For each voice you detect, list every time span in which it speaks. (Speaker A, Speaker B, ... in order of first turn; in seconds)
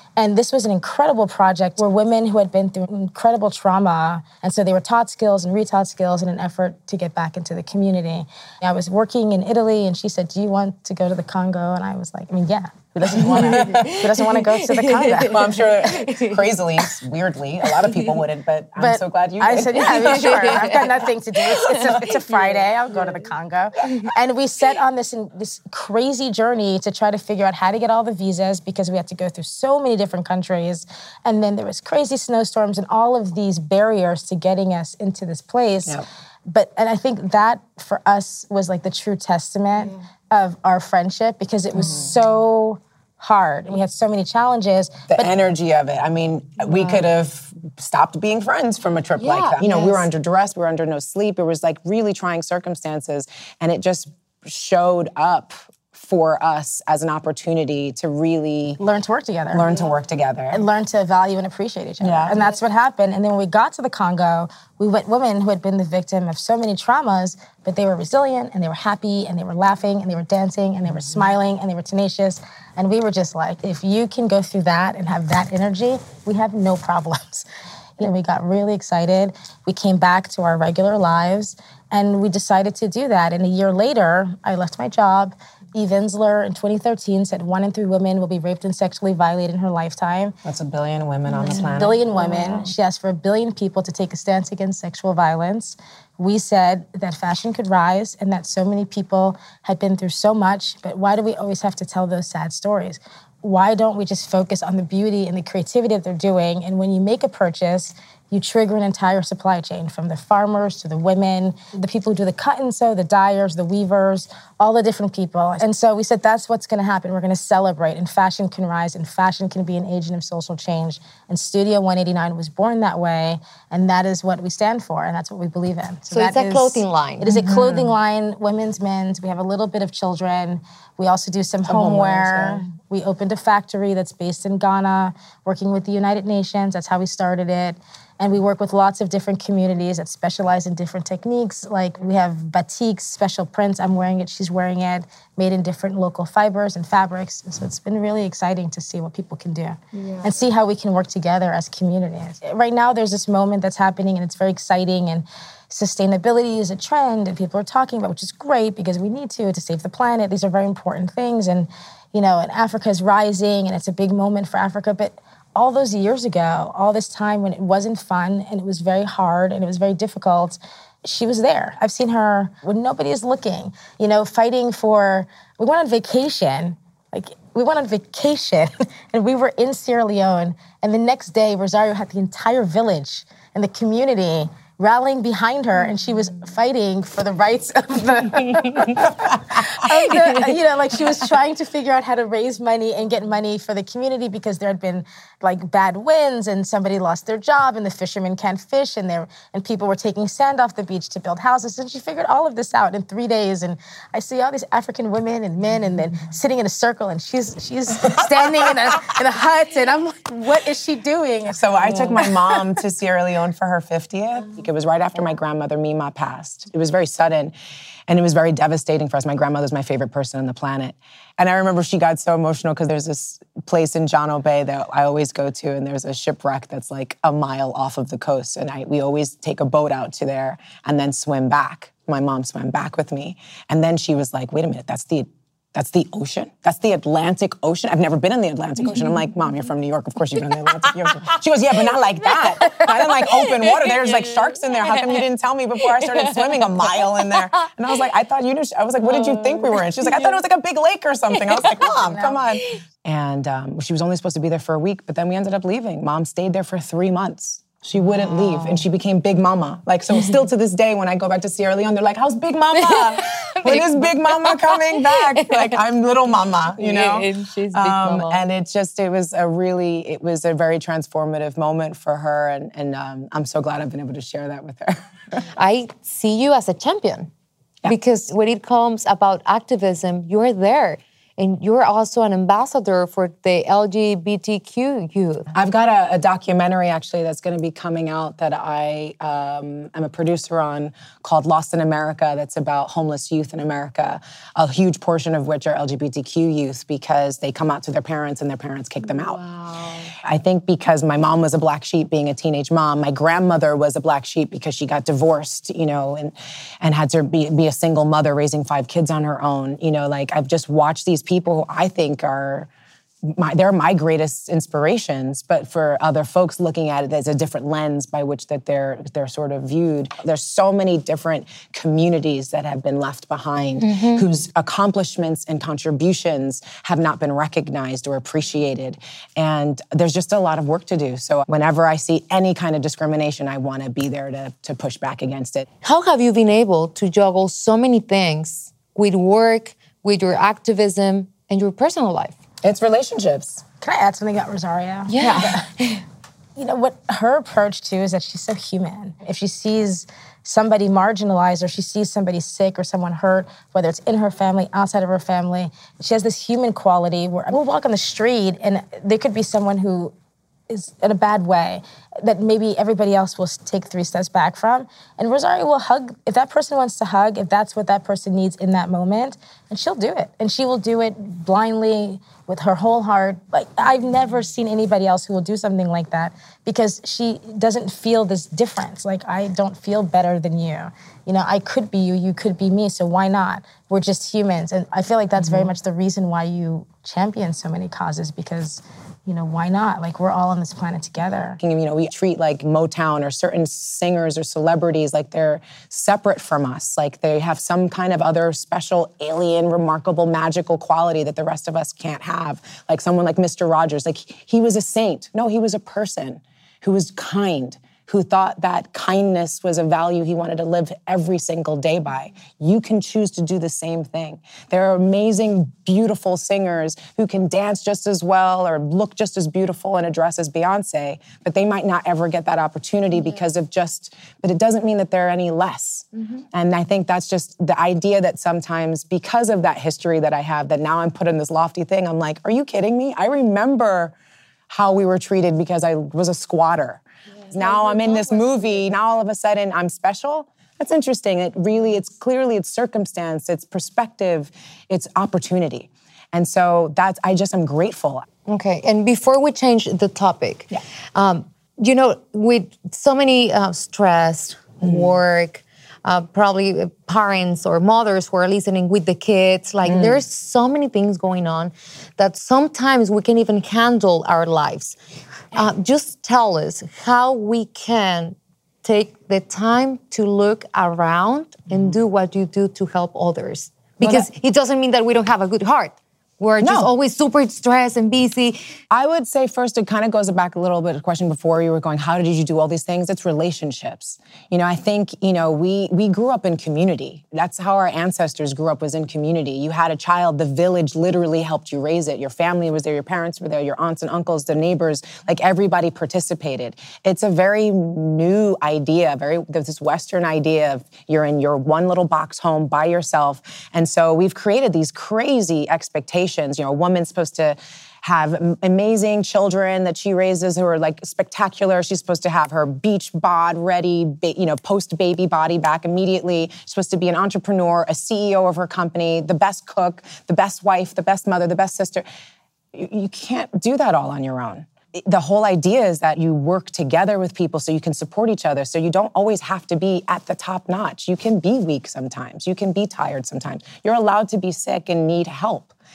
Speaker A: 0.2-15.6, 18.8-45.3, 49.6-50.0, 58.8-59.7, 60.5-77.5, 78.0-90.3, 91.7-212.6, 252.0-252.4, 343.8-345.7, 346.6-360.1, 360.7-391.6
Speaker B: 13.1-14.0, 15.2-21.0, 41.8-42.1, 45.1-58.8, 59.5-60.6, 62.0-62.4, 70.9-71.3, 90.4-92.3, 131.7-132.6, 189.6-189.9, 208.0-208.4, 211.5-217.5, 218.1-275.4, 285.5-299.4, 300.2-312.7, 313.2-335.7, 342.6-343.6, 345.2-345.5, 385.4-385.7, 391.6-434.1, 434.7-448.3, 454.8-455.1, 459.8-460.2, 471.7-472.0, 474.0-474.3, 476.6-476.9, 478.9-522.0, 522.7-535.7
Speaker C: 14.9-15.2, 15.9-16.3, 20.5-21.0, 49.2-49.6, 91.3-92.7, 126.1-127.8, 242.6-244.3, 249.1-249.8, 258.1-258.8, 263.1-265.7, 266.8-268.4, 275.6-277.3, 277.9-285.5, 299.1-300.2, 323.8-324.3, 335.8-342.4, 345.1-346.0, 437.7-438.7, 448.5-465.0, 465.5-478.6